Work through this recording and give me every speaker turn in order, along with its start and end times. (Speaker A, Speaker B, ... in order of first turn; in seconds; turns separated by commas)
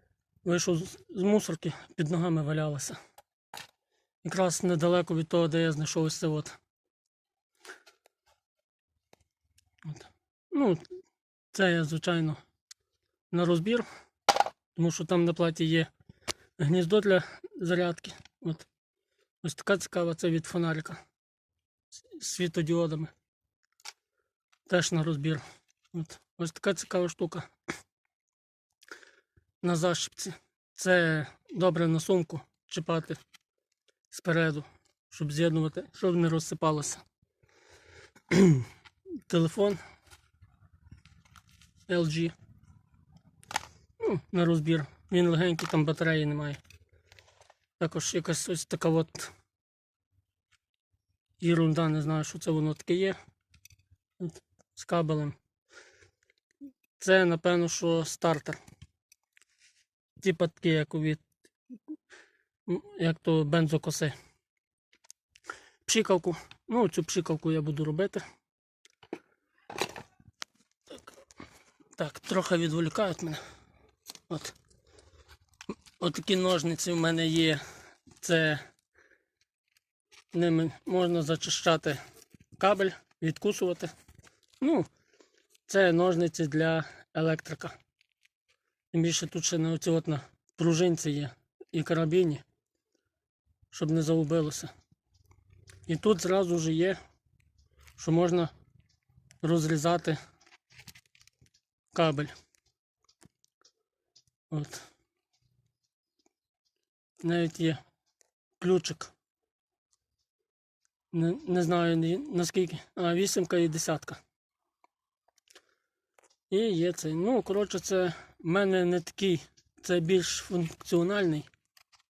Speaker A: 0.4-3.0, Speaker A: 4.2-6.6, Speaker A: 9.9-10.8, Speaker A: 11.5-12.4, Speaker A: 13.3-13.9, Speaker A: 14.8-15.9, Speaker A: 16.6-18.7, Speaker A: 19.4-21.0, Speaker A: 21.9-23.1, Speaker A: 24.7-27.5, Speaker A: 29.6-33.2, Speaker A: 34.1-37.0, Speaker A: 38.3-38.7, Speaker A: 39.2-39.8, Speaker A: 41.9-42.4, Speaker A: 44.0-46.6, Speaker A: 47.8-49.3, Speaker A: 51.4-53.2, Speaker A: 54.2-55.4, Speaker A: 57.0-58.6, Speaker A: 60.2-61.3, Speaker A: 62.7-64.2, Speaker A: 65.8-68.2, Speaker A: 72.0-73.4, Speaker A: 74.3-74.6, Speaker A: 76.0-78.7, Speaker A: 80.3-82.0, Speaker A: 82.6-83.9, Speaker A: 84.6-84.9, Speaker A: 85.7-87.8, Speaker A: 88.9-92.4, Speaker A: 93.7-94.7, Speaker A: 95.9-97.0, Speaker A: 98.0-98.5, Speaker A: 99.4-100.2, Speaker A: 101.9-102.3, Speaker A: 104.5-104.9, Speaker A: 107.2-107.8, Speaker A: 108.6-109.1, Speaker A: 111.1-114.2, Speaker A: 116.5-121.5